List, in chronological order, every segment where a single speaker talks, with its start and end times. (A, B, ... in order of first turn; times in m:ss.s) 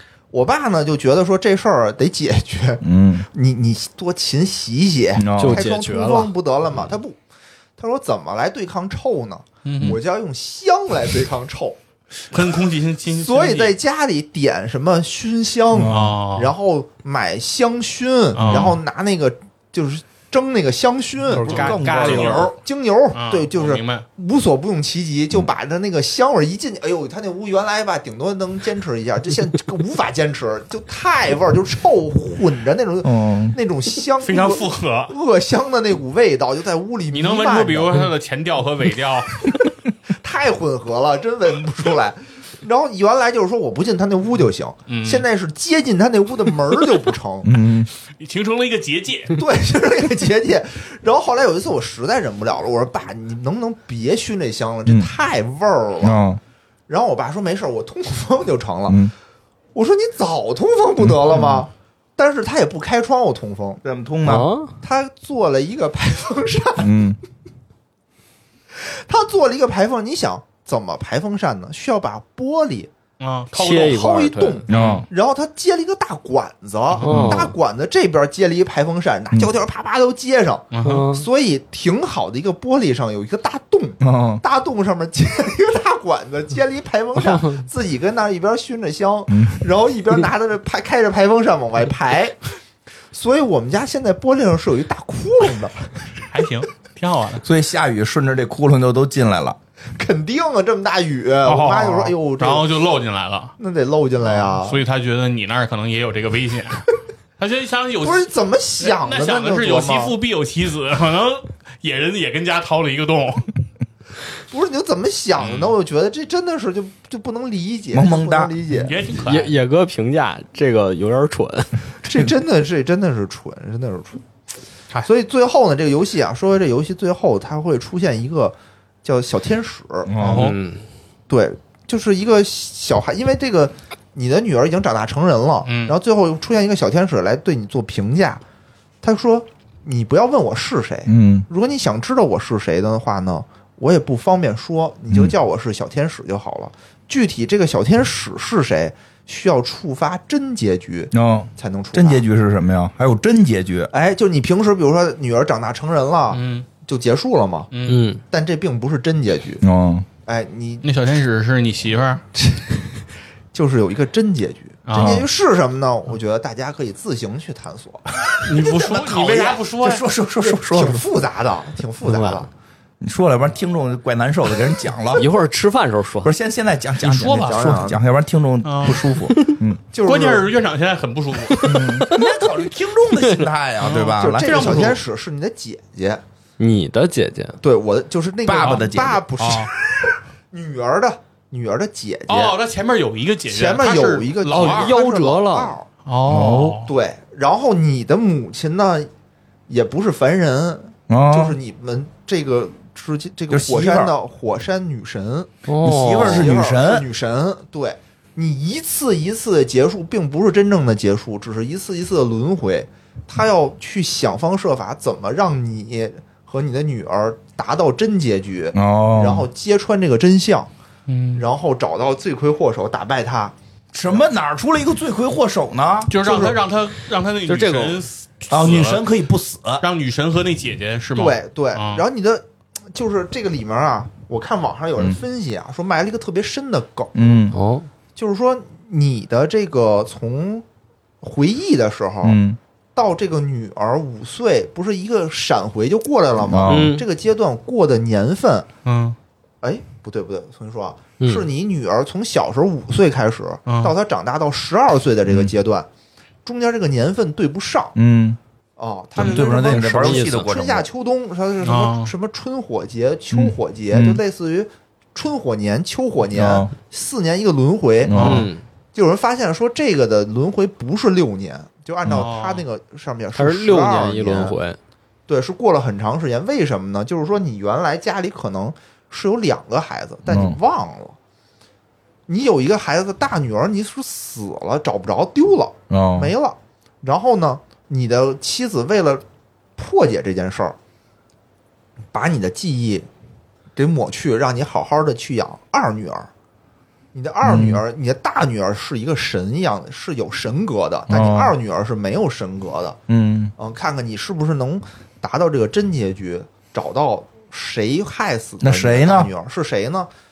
0:00.3-0:07.2 A
0:02.8-0:03.3 B
0:05.2-0:05.7 B
0:05.4-0:06.3 C
0:07.8-0:11.8 A
0:09.6-0:10.0 D
0:12.3-0:13.8 D
0:13.1-0:38.1 A
0:15.7-0:16.2 B
0:15.8-0:16.5 D
0:18.3-0:18.8 D
0:21.3-0:22.5 B
0:21.3-0:22.5 C
0:21.4-0:22.5 D
0:23.1-0:24.1 D
0:33.0-0:33.6 B
0:34.2-0:35.1 D
0:37.1-0:39.5 D
0:40.1-0:47.5 A
0:44.9-0:45.2 D
0:47.4-0:47.9 B
0:48.2-0:49.4 D
0:49.3-0:56.2 A
0:56.0-0:56.4 B
0:56.9-0:59.1 A
0:58.9-0:59.1 B
0:59.7-1:03.8 A
1:01.0-1:01.6 B
1:03.8-1:04.5 B
1:04.2-1:04.7 C
1:04.8-1:07.0 A
1:06.8-1:07.2 B
1:08.7-1:12.9 A
1:13.2-1:14.0 D
1:13.5-1:14.6 C
1:13.7-1:32.4 A
1:14.7-1:15.1 B
1:14.7-1:15.0 D
1:17.0-1:17.5 C
1:17.1-1:17.5 B
1:20.7-1:21.1 D
1:20.8-1:21.2 C
1:24.0-1:24.4 B
1:29.3-1:29.6 B
1:33.1-1:35.9 A
1:36.3-1:37.4 D
1:37.4-1:39.6 B
1:40.0-1:42.7 A
1:41.5-1:43.6 D
1:43.6-1:44.8 A
1:44.2-1:53.5 D
1:48.0-1:50.2 A
1:54.5-1:59.0 A
1:55.4-1:55.7 D
1:57.9-1:58.6 B
1:58.7-1:59.5 D
1:59.1-2:01.8 C
2:02.0-2:04.2 A
2:05.0-2:10.1 A
2:10.1-2:10.6 B
2:10.2-2:10.6 D
2:10.3-2:10.8 C
2:11.3-2:18.4 A
2:15.6-2:16.0 D
2:19.0-2:32.2 A
2:21.1-2:21.5 B
2:31.1-2:33.9 B
2:33.9-2:37.7 A
2:36.3-2:36.7 D
2:37.7-2:38.1 D
2:37.8-2:38.2 C
2:38.3-2:39.6 A
2:39.6-2:40.1 B
2:40.2-2:40.9 A
2:40.8-2:42.2 D
2:42.4-2:42.8 A
2:43.5-2:49.7 A
2:44.9-2:45.3 D
2:45.0-2:45.2 B
2:48.4-2:50.0 D
2:49.7-2:51.0 B
2:50.4-2:52.5 A
2:52.0-2:52.4 C
2:53.0-2:55.3 B
2:55.1-2:56.3 C
2:56.2-2:59.8 B
2:57.0-2:57.8 D
2:57.2-2:58.0 A
2:58.6-2:59.1 D
2:59.9-3:00.5 A
3:00.0-3:02.0 D
3:01.5-3:02.5 C
3:01.6-3:04.9 B
3:03.1-3:03.5 C
3:03.8-3:05.0 D
3:04.1-3:06.2 A
3:06.6-3:07.6 C
3:07.6-3:09.8 A
3:08.4-3:09.3 B
3:08.6-3:09.7 D
3:10.5-3:12.6 A
3:12.3-3:15.0 D
3:13.5-3:15.9 A
3:14.5-3:15.8 C
3:16.1-3:16.9 D
3:16.3-3:16.8 B
3:16.8-3:19.1 A
3:19.7-3:25.5 A
3:21.1-3:21.6 B
3:23.5-3:24.2 B
3:25.7-3:26.5 C
3:25.8-3:27.1 B
3:26.1-3:40.7 A
3:38.7-3:39.5 B
3:41.1-3:41.4 D
3:41.4-3:43.6 A
3:43.9-3:46.2 B
3:46.1-3:49.0 D
3:46.2-3:46.6 A
3:47.5-3:48.0 C
3:48.5-3:49.8 B
3:49.8-3:52.0 D
3:51.2-3:57.3 A
3:57.2-3:57.6 B
3:57.5-3:57.9 C
3:58.2-4:00.6 A
4:01.2-4:02.4 A
4:02.2-4:02.6 B
4:03.0-4:08.7 A
4:06.4-4:07.0 B
4:06.7-4:07.0 C
4:08.8-4:09.2 D
4:09.6-4:15.9 A
4:11.2-4:11.5 C
4:13.7-4:13.9 D
4:15.3-4:15.5 B
4:16.4-4:18.0 A
4:18.0-4:18.4 B
4:18.8-4:28.4 A
4:19.2-4:20.9 B
4:19.7-4:20.5 C
4:21.6-4:22.1 D
4:23.3-4:24.2 B
4:26.3-4:26.7 B
4:28.0-4:28.5 B
4:28.1-4:28.5 D
4:28.2-4:28.6 C
4:28.9-4:34.6 A
4:32.1-4:32.6 D
4:33.4-4:34.8 C
4:35.3-4:41.2 A
4:40.3-4:40.6 B
4:42.3-4:49.2 A
4:45.9-4:46.3 B
4:49.8-4:50.8 A
4:52.1-4:53.1 A
4:53.8-4:56.3 A
4:57.1-5:03.0 A
4:57.4-4:57.8 B
5:01.1-5:01.5 B
5:03.1-5:03.5 B
5:03.6-5:10.1 A
5:08.6-5:09.3 B